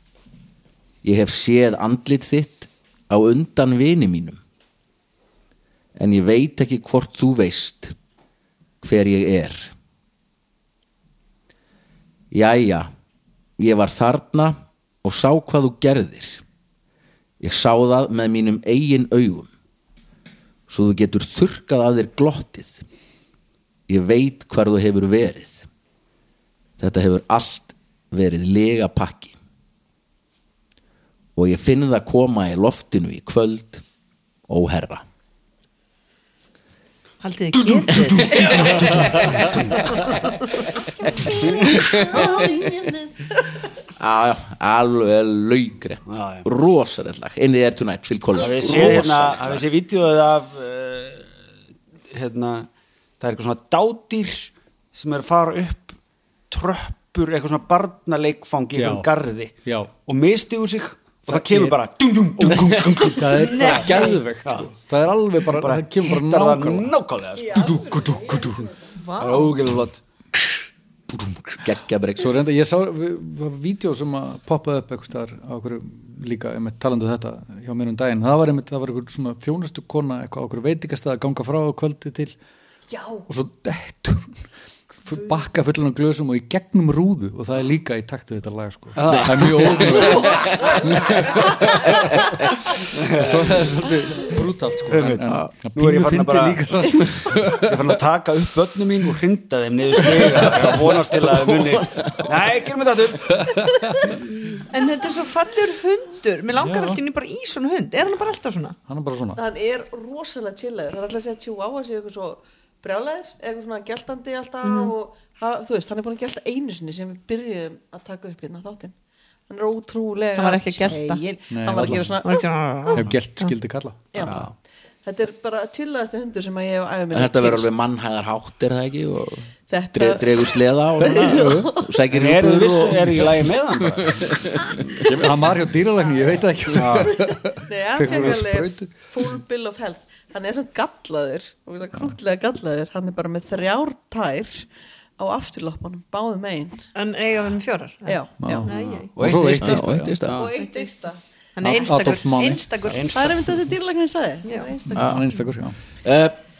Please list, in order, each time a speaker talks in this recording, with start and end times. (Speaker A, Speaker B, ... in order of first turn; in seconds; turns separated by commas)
Speaker A: 1.0-4.4, Speaker A: 6.0-8.0, Speaker A: 8.8-9.7, Speaker A: 12.3-12.9, Speaker A: 13.6-16.4, Speaker A: 17.4-19.5, Speaker A: 20.7-22.8, Speaker A: 23.9-25.7, Speaker A: 26.8-29.3, Speaker A: 31.4-33.8, Speaker A: 34.5-35.0, Speaker B: 37.2-40.4, Speaker A: 37.9-39.6, Speaker B: 41.2-42.9, Speaker A: 41.3-42.9, Speaker A: 44.0-49.6, Speaker C: 46.1-46.5, Speaker C: 48.4-51.4, Speaker C: 52.1-52.7, Speaker C: 53.2-56.0, Speaker C: 56.5-64.7, Speaker D: 58.7-59.1, Speaker D: 59.6-59.9, Speaker D: 61.3-61.8, Speaker D: 62.4-66.9, Speaker B: 63.3-64.2, Speaker C: 65.5-70.0, Speaker E: 67.4-68.8, Speaker B: 69.0-69.6, Speaker A: 71.1-72.3, Speaker D: 72.2-82.3, Speaker E: 82.9-83.2, Speaker D: 83.3-84.5, Speaker D: 85.0-92.3, Speaker C: 89.0-90.1, Speaker A: 89.1-92.6, Speaker E: 90.3-91.5, Speaker D: 92.8-98.0, Speaker C: 92.9-93.7, Speaker C: 94.9-96.7, Speaker A: 95.2-95.5, Speaker C: 97.4-103.5, Speaker D: 100.0-101.8, Speaker A: 101.8-102.3, Speaker D: 103.4-104.1, Speaker B: 104.5-108.8, Speaker D: 106.6-107.0, Speaker D: 108.9-109.4, Speaker E: 109.3-119.0, Speaker B: 114.6-114.9, Speaker E: 119.5-123.0, Speaker B: 120.3-121.2, Speaker D: 121.5-122.2, Speaker B: 122.2-123.5, Speaker D: 122.9-124.5, Speaker E: 124.1-124.5, Speaker E: 125.0-127.8, Speaker A: 127.1-135.0, Speaker E: 129.7-131.9, Speaker D: 131.2-131.7, Speaker C: 132.1-134.4, Speaker D: 135.0-139.1, Speaker C: 136.7-137.2, Speaker E: 137.3-146.9, Speaker C: 138.1-138.4, Speaker B: 146.9-149.1, Speaker E: 148.1-148.7, Speaker D: 148.4-150.2, Speaker C: 149.2-150.5, Speaker A: 149.6-150.5, Speaker E: 150.3-151.2, Speaker B: 150.5-150.9, Speaker B: 151.6-153.1, Speaker D: 151.6-152.7, Speaker C: 152.8-153.5, Speaker E: 153.1-155.2, Speaker B: 154.4-154.7, Speaker D: 154.9-155.8, Speaker A: 155.0-155.2, Speaker A: 156.0-156.3